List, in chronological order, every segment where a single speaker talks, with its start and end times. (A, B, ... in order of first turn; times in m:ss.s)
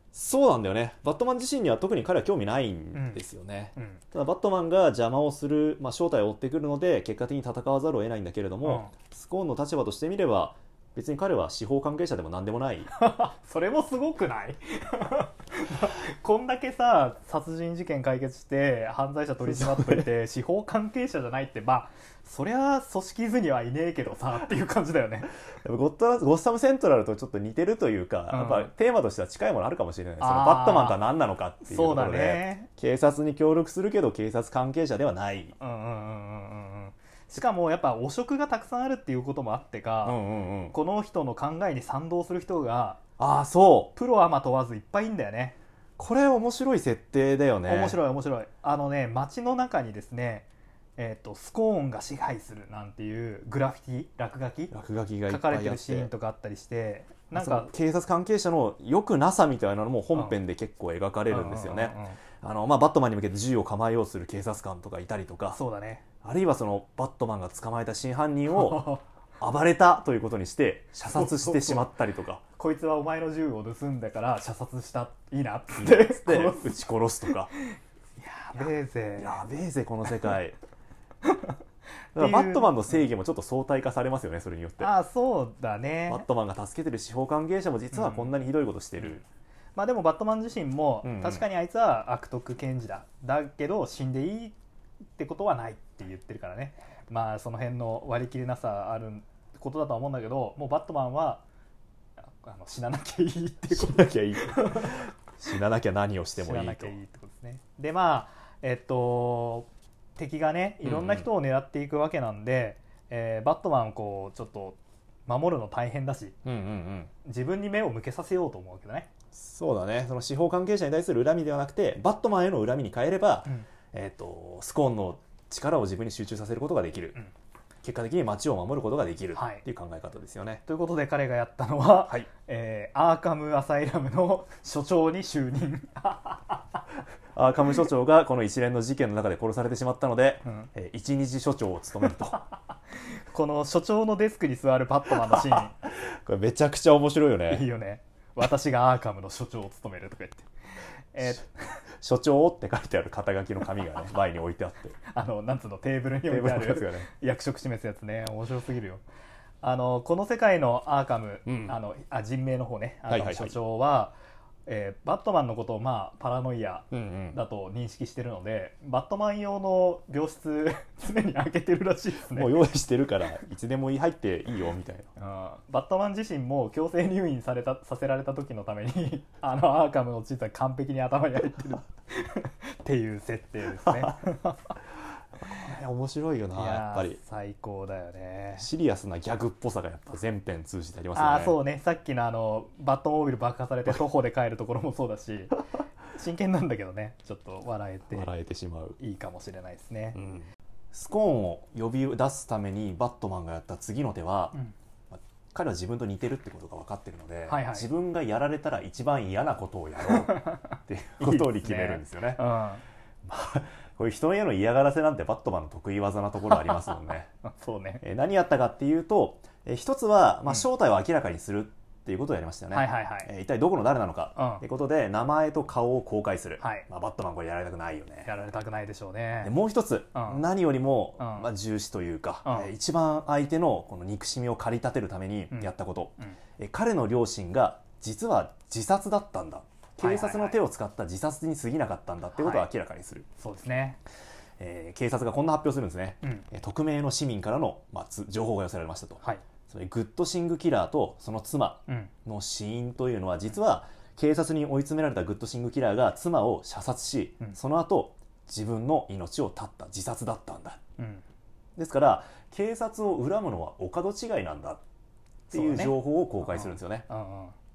0:00.1-0:12.9 A
0:02.9-0:03.2 B
0:03.8-0:04.0 B
0:08.6-0:08.9 B
0:12.9-0:25.3 B
0:19.4-0:20.1 A
0:25.6-0:35.5 A
0:28.3-0:28.7 B
0:30.2-0:31.0 B
0:31.6-0:32.7 B
0:35.6-0:40.2 B
0:40.0-0:40.7 A
0:40.7-0:43.0 B
0:43.2-0:43.9 A
0:43.9-0:45.6 B
0:46.0-0:48.0 A
0:47.7-0:54.7 B
0:54.7-0:56.1 A
0:55.3-0:57.7 B
0:57.3-1:05.6 A
1:01.3-1:02.2 B
1:05.5-1:06.0 B
1:06.2-1:12.4 A
1:08.5-1:09.0 B
1:11.1-1:11.9 B
1:12.6-1:16.7 B
1:15.8-1:17.5 A
1:18.2-1:19.4 B
1:19.2-1:20.6 A
1:21.2-1:21.5 B
1:22.1-1:22.7 B
1:22.2-1:24.9 A
1:24.8-1:26.2 B
1:26.1-1:29.2 A
1:27.9-1:28.3 B
1:29.8-1:34.6 B
1:31.0-1:31.4 A
1:35.2-1:41.4 B
1:42.2-1:45.0 B
1:43.7-1:47.0 A
1:46.4-1:56.4 B
1:50.8-1:51.3 A
1:56.4-1:57.1 A
1:57.2-1:59.1 B
1:59.3-2:07.2 A
2:07.8-2:10.6 A
2:09.3-2:09.6 B
2:10.6-2:16.8 B
2:17.3-2:22.4 A
2:23.3-2:25.7 B
2:25.3-2:27.6 A
2:27.5-2:30.5 B
2:31.1-2:31.8 B
2:32.0-2:35.0 A
2:35.1-2:39.0 B
2:36.3-2:37.1 A
2:39.6-2:44.1 B
2:41.4-2:41.7 A
2:43.1-2:43.6 A
2:44.6-2:52.6 B
2:46.9-2:47.4 A
2:52.3-2:55.1 A
2:55.2-3:04.7 B
3:03.8-3:04.1 A
3:05.4-3:07.2 A
3:06.5-3:08.7 B
3:08.6-3:11.6 A
3:11.1-3:18.3 B
3:18.1-3:19.0 A
3:19.0-3:20.2 B
3:20.2-3:24.6 A
3:25.1-3:32.4 A
3:27.5-3:27.9 B
3:30.0-3:32.8 B
3:33.2-3:37.3 A
3:36.5-3:38.0 B
3:38.0-3:48.3 A
3:42.7-3:43.3 B
3:44.4-3:44.6 B
3:46.6-3:46.8 B
3:48.2-3:49.5 B
3:49.4-4:03.3 A
3:50.1-3:50.4 B
3:51.2-3:51.5 B
3:52.4-3:52.7 B
3:55.5-3:56.4 B
4:00.0-4:00.6 B
4:02.4-4:02.7 B
4:03.4-4:04.0 B
4:04.6-4:20.8 A
4:21.0-4:21.2 B
4:21.8-4:24.8 A
4:25.5-4:27.0 A
4:25.5-4:27.5 B